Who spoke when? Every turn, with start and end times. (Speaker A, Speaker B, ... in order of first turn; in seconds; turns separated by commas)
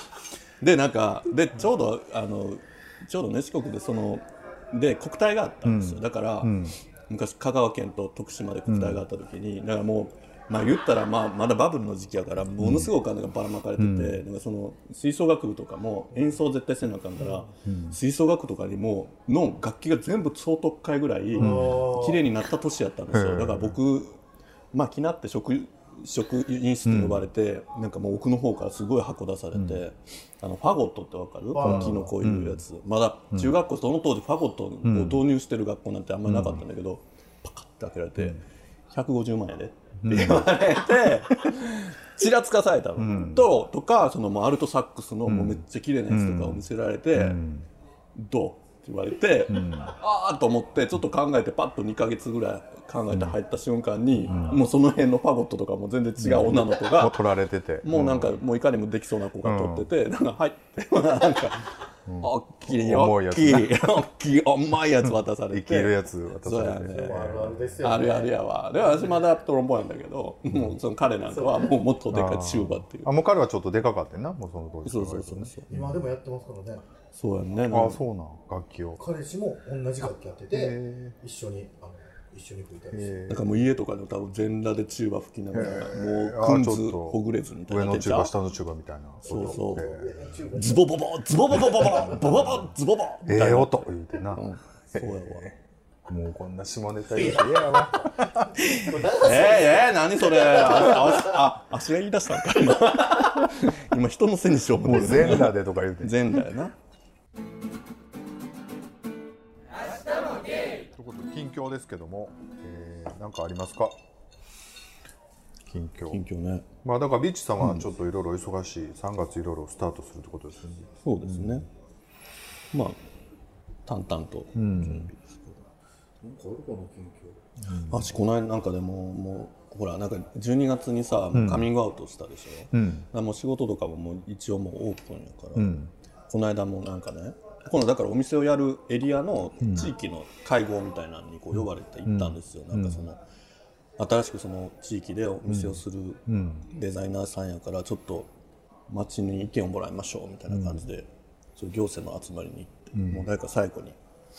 Speaker A: 0.6-24.2, Speaker B: 5.6-6.8, Speaker B: 8.7-9.0, Speaker B: 12.6-12.9, Speaker B: 13.8-14.2, Speaker C: 17.2-17.5, Speaker B: 17.6-18.0, Speaker C: 21.4-22.2, Speaker B: 21.4-21.9, Speaker B: 23.1-23.8, Speaker A: 24.7-47.4, Speaker B: 26.9-27.2, Speaker B: 29.5-29.8, Speaker C: 31.5-32.1, Speaker B: 31.6-32.6, Speaker B: 33.3-33.6, Speaker B: 34.8-35.2, Speaker B: 36.2-36.6, Speaker B: 40.0-40.6, Speaker B: 43.0-43.5, Speaker B: 45.2-47.7, Speaker A: 48.1-57.2, Speaker B: 49.5-49.9, Speaker B: 53.1-53.4, Speaker B: 54.2-54.6, Speaker B: 56.2-58.4, Speaker A: 57.8-67.3, Speaker B: 59.4-59.9, Speaker B: 62.0-63.9, Speaker B: 65.0-67.8, Speaker C: 66.8-68.3, Speaker A: 67.8-73.1, Speaker C: 71.3-71.7, Speaker B: 72.1-76.0, Speaker A: 74.8-75.7, Speaker C: 75.7-76.8, Speaker A: 77.1-78.0, Speaker B: 77.7-79.0, Speaker C: 79.0-83.2, Speaker B: 80.5-81.2, Speaker B: 82.9-83.5, Speaker A: 83.3-88.3, Speaker B: 85.5-90.2, Speaker A: 89.2-89.9, Speaker C: 89.2-90.9, Speaker A: 90.5-95.4, Speaker B: 91.5-92.7, Speaker B: 93.2-98.5, Speaker C: 97.1-101.5, Speaker A: 98.6-106.7, Speaker B: 104.8-106.2, Speaker B: 110.9-114.0, Speaker B: 115.7-116.2, Speaker A: 116.1-116.7, Speaker B: 116.8-121.6, Speaker A: 121.0-121.7, Speaker A: 122.7-123.0, Speaker A: 123.8-125.4, Speaker B: 124.5-125.1, Speaker C: 126.2-127.4, Speaker B: 127.6-128.1, Speaker A: 127.9-143.2, Speaker B: 131.3-131.7, Speaker B: 132.7-133.1, Speaker B: 135.5-135.9, Speaker B: 139.6-139.9, Speaker B: 141.5-143.0, Speaker A: 144.0-148.3, Speaker B: 145.5-146.6, Speaker A: 148.9-154.0, Speaker B: 150.5-150.8, Speaker B: 152.9-153.2